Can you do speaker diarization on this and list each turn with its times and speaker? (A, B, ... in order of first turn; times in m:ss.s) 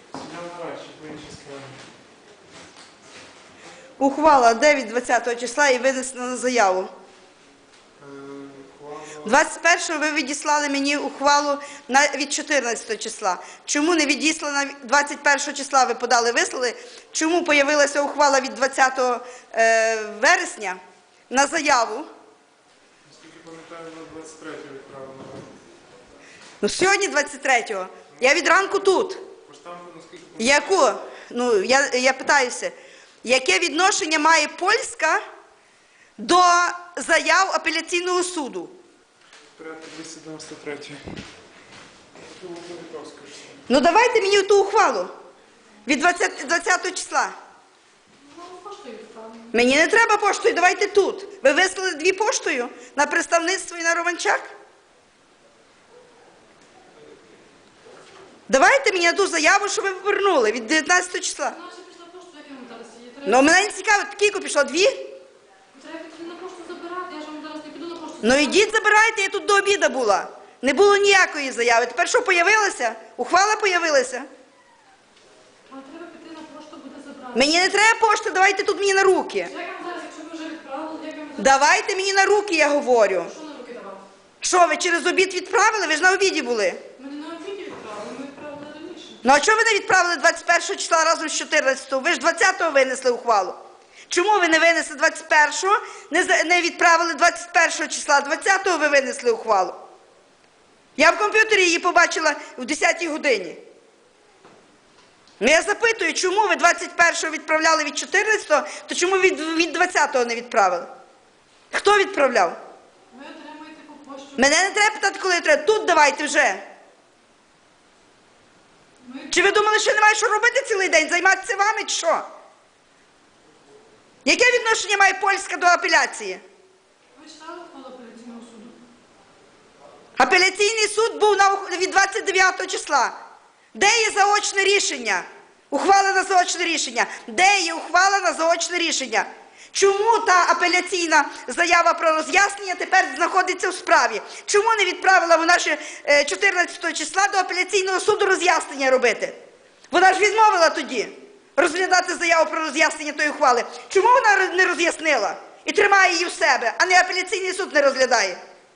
0:00.1-0:01.8 A
0:04.0-0:06.9 B
0:08.0-0:09.4 A
0:09.2-0:20.8 B
0:21.3-0:22.1 B
0:23.0-0:25.5 A
0:26.6-0:29.2 B
0:29.4-0:30.9 A
0:30.4-0:35.2 B
0:36.2-0:38.7 B
0:39.6-0:41.2 A
0:42.2-0:43.6 A
0:43.7-0:45.1 B
0:45.8-0:47.3 B
0:48.2-0:49.5 C
0:49.5-0:54.5 B
0:58.5-1:01.6 B
1:01.5-1:03.5 C
1:03.2-1:05.1 B
1:05.7-1:08.7 C
1:08.2-1:14.2 B
1:15.7-1:17.7 C
1:17.3-1:19.5 B
1:19.4-1:21.6 C
1:21.4-1:23.3 B
1:23.2-1:24.0 C
1:24.4-1:26.8 B
1:27.0-1:29.2 C
1:29.2-1:39.8 B
1:41.0-1:43.6 B
1:45.4-1:50.9 B
1:51.7-1:52.6 B
1:53.1-1:54.7 C
1:54.4-1:56.6 B
1:59.0-1:59.6 C
1:59.3-2:02.2 B
2:04.2-2:06.4 B
2:07.2-2:08.8 C
2:10.2-2:13.1 B
2:13.7-2:29.4 B
2:29.9-2:38.4 B